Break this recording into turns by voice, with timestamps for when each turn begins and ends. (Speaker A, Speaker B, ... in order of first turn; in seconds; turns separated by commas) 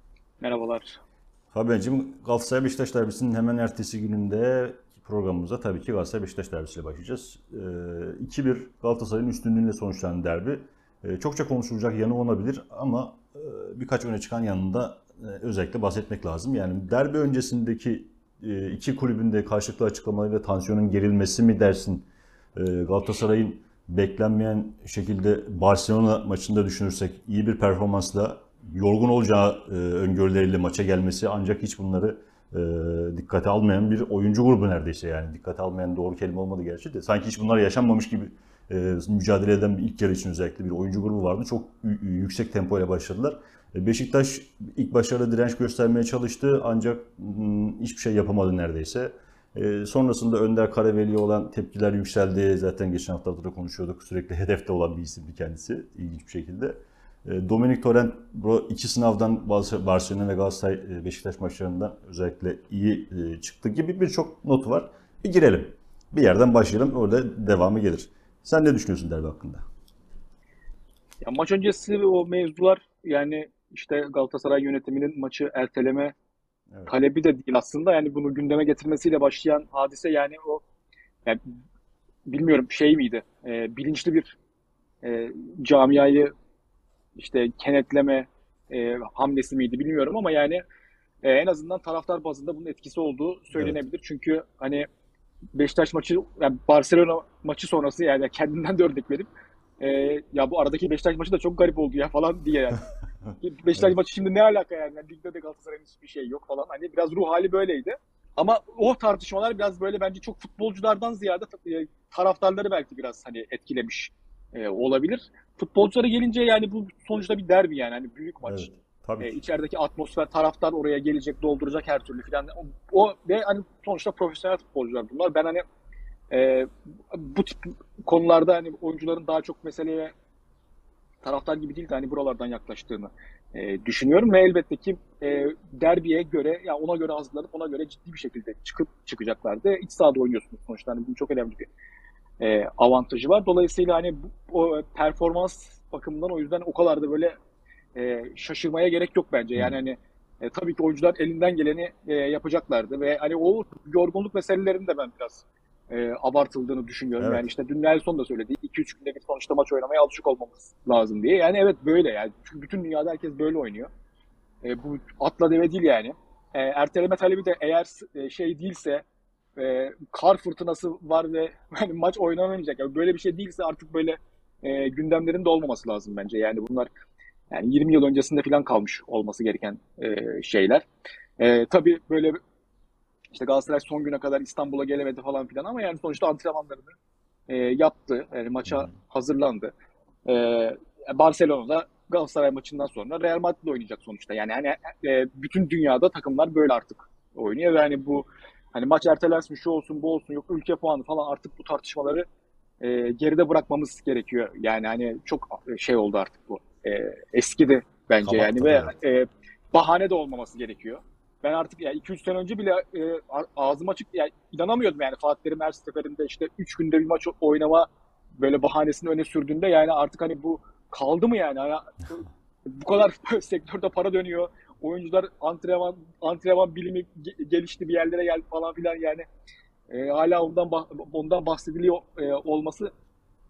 Speaker A: 0.4-1.0, Speaker B: 1.5-69.6, Speaker A: 71.2-76.1, Speaker A: 76.9-80.6, Speaker A: 82.3-84.4, Speaker A: 85.0-86.3, Speaker A: 87.2-90.6, Speaker A: 91.2-94.9, Speaker A: 95.5-99.3, Speaker A: 99.8-102.8, Speaker B: 103.3-103.9, Speaker A: 103.4-118.7, Speaker B: 118.5-119.4, Speaker A: 119.2-125.6, Speaker A: 126.3-130.1, Speaker A: 131.2-141.7, Speaker A: 142.4-147.3, Speaker A: 147.9-163.9, Speaker B: 157.2-157.5, Speaker A: 164.6-169.0, Speaker A: 169.6-176.9, Speaker A: 177.5-180.9, Speaker A: 181.4-182.4, Speaker A: 183.3-186.9, Speaker A: 187.5-189.7, Speaker B: 188.7-189.0, Speaker A: 190.2-202.2, Speaker A: 202.8-229.2, Speaker B: 208.2-209.0, Speaker A: 229.9-232.9